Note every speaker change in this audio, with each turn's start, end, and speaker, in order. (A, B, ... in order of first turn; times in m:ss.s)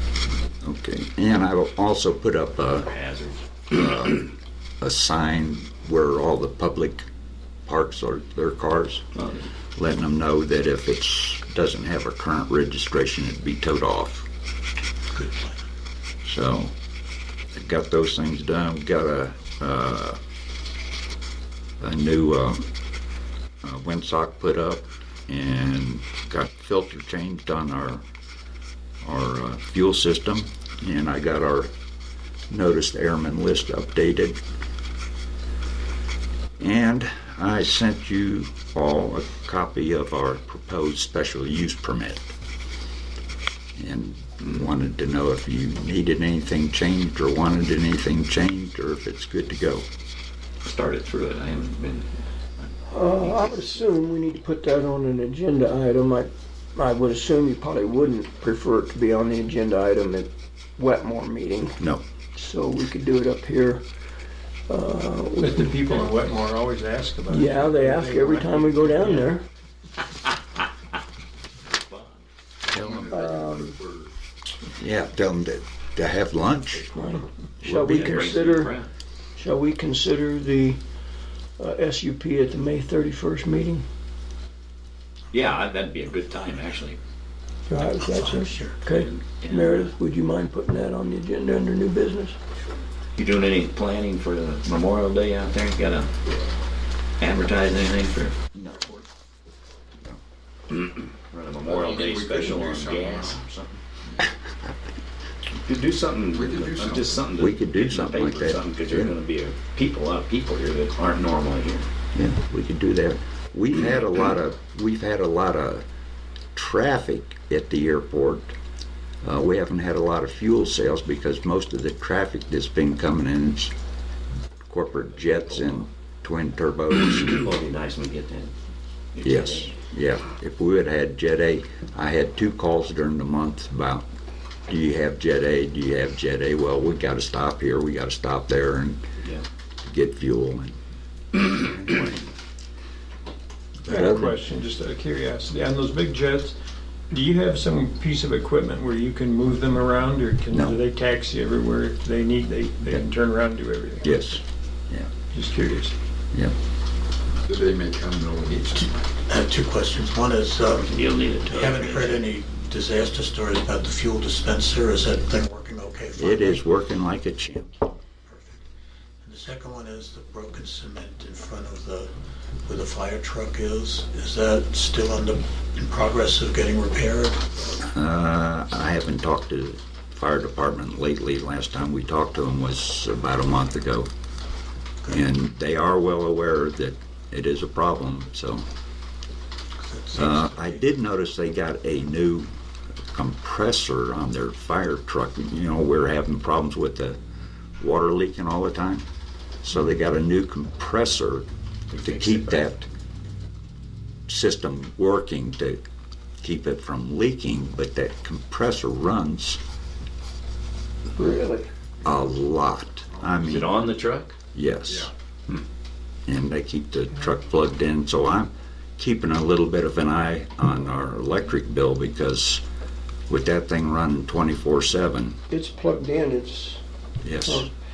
0:00.6-0:02.9 A
0:02.8-0:03.4 B
0:03.7-0:07.1 A
0:07.7-0:09.0 A
0:09.2-0:09.4 B
0:09.8-0:14.3 A
0:15.1-0:15.6 C
0:16.2-0:16.7 A
0:17.5-0:20.2 A
0:21.8-0:22.7 A
0:23.6-0:28.0 A
0:29.0-0:31.7 A
0:32.5-0:34.4 A
0:36.6-0:42.3 A
0:43.8-0:49.9 A
0:50.6-0:53.8 B
0:52.9-1:01.8 D
1:02.3-1:03.8 D
1:04.7-1:05.7 D
1:05.4-1:09.3 E
1:07.3-1:09.4 D
1:11.7-1:12.2 B
1:12.7-1:14.1 F
1:13.1-1:13.7 D
1:14.8-1:17.0 A
1:16.8-1:18.7 D
1:17.6-1:18.4 A
1:17.8-1:18.9 B
1:19.4-1:20.8 D
1:21.6-1:23.8 D
1:25.3-1:27.0 B
1:27.7-1:32.4 D
1:27.9-1:28.8 C
1:28.9-1:30.0 B
1:33.2-1:36.1 B
1:37.2-1:38.3 B
1:40.7-1:43.8 B
1:41.6-1:43.4 F
1:45.5-1:51.9 B
1:46.3-1:47.3 F
1:47.4-1:49.1 A
1:52.1-1:55.8 A
1:56.5-1:58.6 A
1:59.2-2:03.7 A
2:04.7-2:07.5 A
2:05.1-2:05.8 B
2:07.0-2:08.5 B
2:09.1-2:09.8 B
2:09.2-2:14.1 A
2:14.7-2:19.0 A
2:19.8-2:20.7 A
2:21.4-2:22.3 A
2:23.8-2:24.4 A
2:23.8-2:26.6 E
2:27.1-2:34.4 E
2:30.5-2:30.8 A
2:34.0-2:35.1 A
2:35.3-2:35.9 E
2:37.5-2:39.2 F
2:39.2-2:40.9 C
2:40.8-2:42.3 B
2:41.5-2:46.6 C
2:46.2-2:47.7 A
2:48.2-2:48.6 C
2:49.2-2:52.1 C
2:52.7-2:57.6 C
2:57.9-3:04.1 A
3:05.1-3:08.6 A
3:09.8-3:10.6 C
3:10.1-3:12.5 A
3:13.1-3:17.2 A
3:17.8-3:19.1 A
3:19.6-3:21.5 A
3:21.9-3:22.7 B
3:22.0-3:22.9 A
3:24.3-3:25.8 A
3:26.4-3:29.6 A
3:31.2-3:31.7 D
3:32.0-3:33.7 A
3:33.4-3:34.4 B
3:34.5-3:35.1 A
3:36.2-3:42.6 A
3:43.3-3:45.4 A
3:45.5-3:46.8 D
3:47.2-3:47.7 A
3:47.4-3:47.7 D